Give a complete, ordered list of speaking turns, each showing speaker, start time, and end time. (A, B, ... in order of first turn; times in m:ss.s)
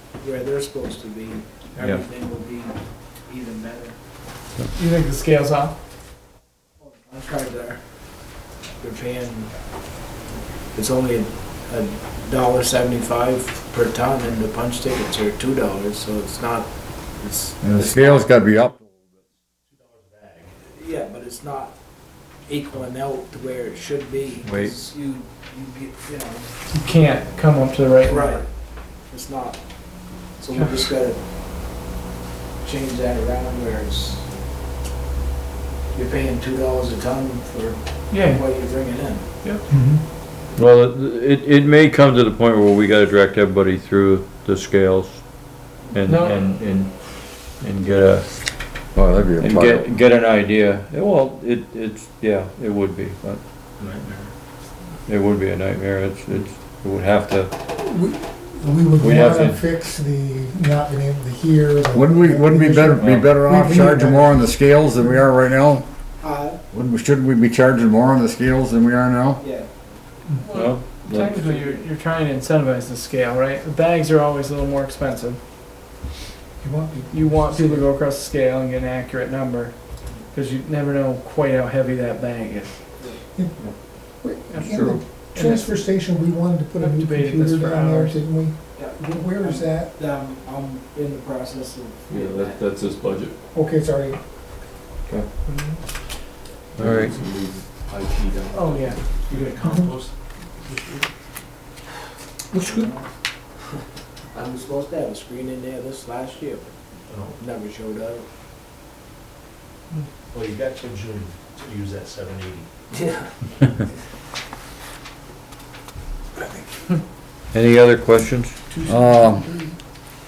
0:00.2-0:04.0 A
0:04.7-0:05.7 B
0:06.8-0:07.8 A
0:08.8-0:09.5 A
0:10.7-0:18.2 A
0:17.6-0:18.8 C
0:19.6-0:20.6 D
0:20.7-0:21.8 A
0:22.4-0:26.5 A
0:24.4-0:24.8 E
0:26.7-0:28.4 B
0:28.0-0:28.4 A
0:29.1-0:29.6 A
0:30.4-0:31.2 A
0:30.5-0:30.9 B
0:32.6-0:34.3 A
0:35.9-0:39.3 A
0:38.1-0:38.5 B
0:39.7-0:40.0 F
0:40.5-0:53.4 E
0:46.0-0:46.4 B
0:48.9-0:49.9 C
0:53.8-0:54.3 D
0:55.1-0:57.5 E
0:57.7-1:05.2 F
0:59.0-0:59.6 E
1:01.9-1:05.9 C
1:02.9-1:03.3 E
1:06.2-1:06.6 A
1:06.7-1:09.4 C
1:09.4-1:09.9 A
1:10.4-1:15.4 B
1:10.5-1:11.4 E
1:11.2-1:11.9 A
1:16.6-1:17.9 F
1:17.1-1:19.8 B
1:20.3-1:22.8 B
1:23.3-1:23.6 F
1:24.2-1:29.9 F
1:24.5-1:25.8 B
1:26.8-1:28.2 B
1:28.7-1:32.6 A
1:32.1-1:33.4 G
1:33.5-1:34.2 F
1:35.4-1:35.8 B
1:36.7-1:37.2 E
1:36.7-1:39.0 G
1:38.5-1:39.0 B
1:39.3-1:40.1 D
1:39.6-1:39.9 F
1:42.5-1:42.9 E
1:42.7-1:43.0 A
1:44.3-1:46.8 A
1:47.1-1:47.4 D
1:47.4-1:48.2 A
1:50.3-1:52.7 D
1:53.0-1:53.3 A
1:56.4-1:56.7 A
1:57.5-1:58.6 E
1:58.8-1:59.4 C